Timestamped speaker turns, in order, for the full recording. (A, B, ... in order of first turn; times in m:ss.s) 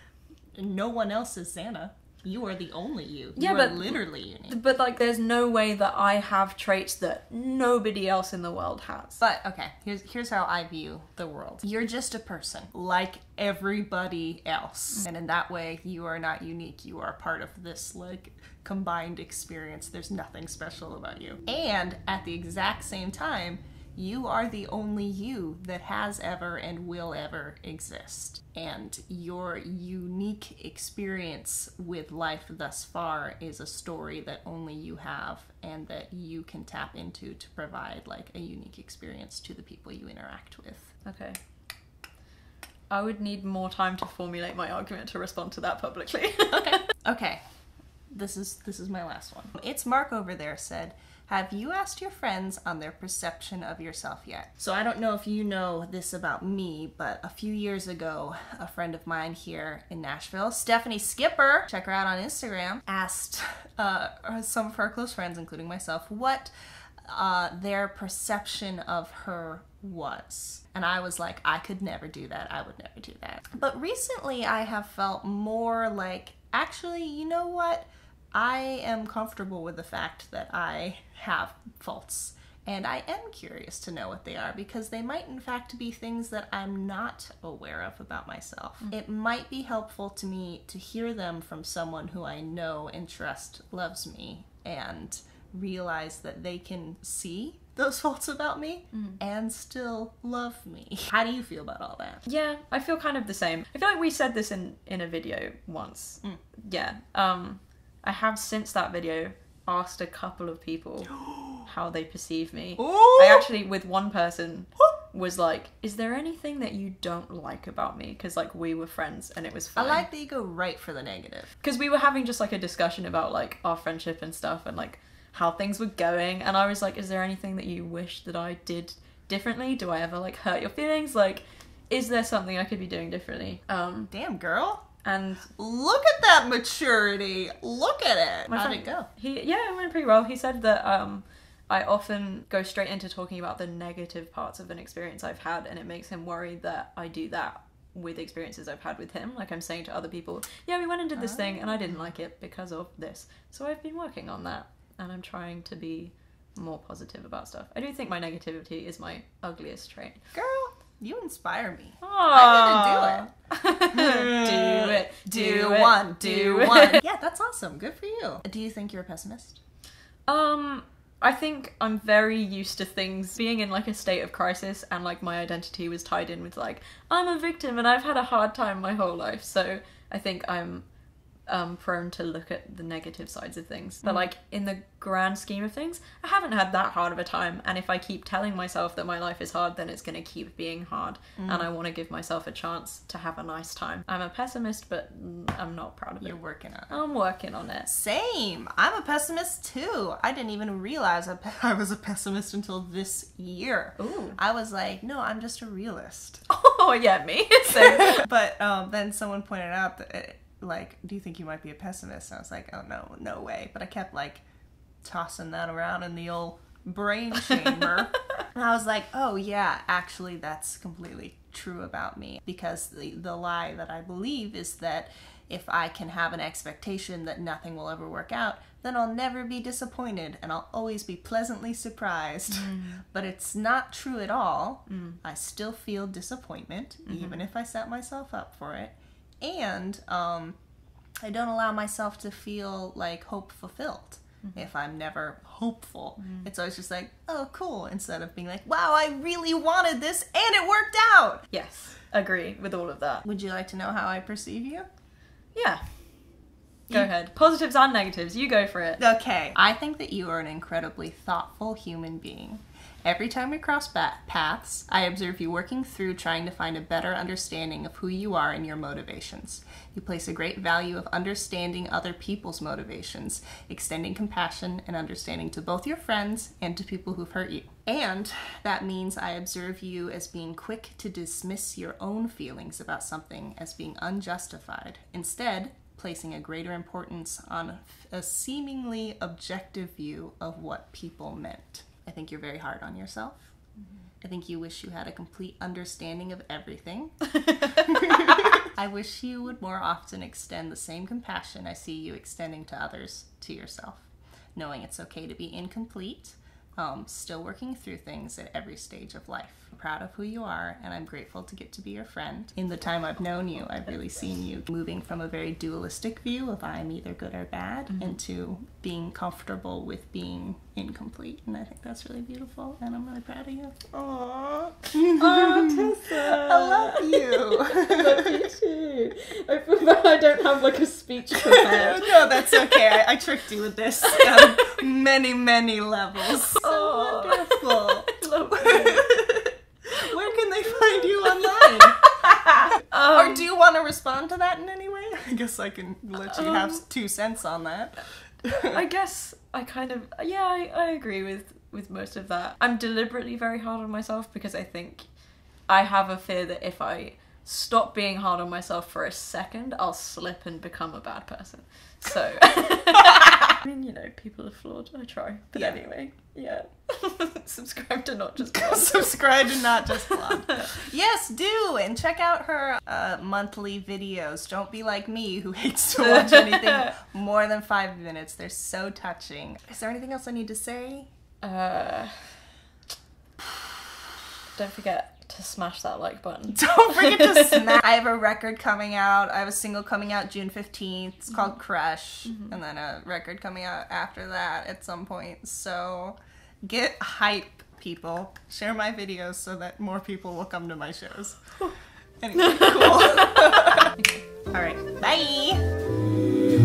0:00.6-0:04.6 A
0:03.4-0:09.2 B
0:09.2-0:40.9 A
0:41.0-0:41.4 B
0:42.9-0:46.9 B
0:46.5-0:47.4 A
0:48.1-1:06.5 A
1:07.0-1:42.2 A
1:42.2-2:00.0 B
1:52.8-1:53.5 A
1:59.8-2:01.5 A
2:01.6-2:14.1 B
2:14.1-2:14.8 A
2:15.0-2:15.5 B
2:15.5-2:19.1 A
2:18.5-2:40.2 B
2:31.2-2:32.0 A
2:40.3-2:43.3 A
2:42.0-2:47.0 B
2:43.9-2:49.6 A
2:50.3-3:00.8 B
3:01.5-3:16.4 B
3:04.0-3:04.3 A
3:11.4-3:11.7 A
3:16.2-3:17.0 A
3:16.9-3:17.9 B
3:17.8-3:26.4 A
3:24.0-3:24.4 B
3:26.5-3:28.2 B
3:27.8-3:34.4 A
3:35.0-4:00.6 A
3:52.5-3:53.0 B
3:54.9-3:55.2 B
3:57.1-3:57.4 B
4:01.2-4:11.4 A
4:06.2-4:06.5 B
4:11.5-4:13.2 B
4:13.2-4:14.9 A
4:15.6-4:16.0 B
4:16.9-4:19.0 B
4:19.0-4:53.6 A
4:54.2-5:28.4 A
5:25.0-5:33.0 B
5:31.4-5:42.0 A
5:34.0-5:34.8 B
5:36.2-5:39.1 B
5:40.3-5:43.4 B
5:42.8-5:48.8 A
5:46.3-5:46.8 B
5:48.7-5:55.0 B
5:55.7-6:10.7 B
6:08.5-6:21.1 A
6:16.1-6:16.9 B
6:21.4-6:22.4 B
6:24.5-6:27.8 B
6:26.5-6:41.7 A
6:42.2-6:44.0 A
6:42.4-6:44.2 B
6:44.5-6:45.6 A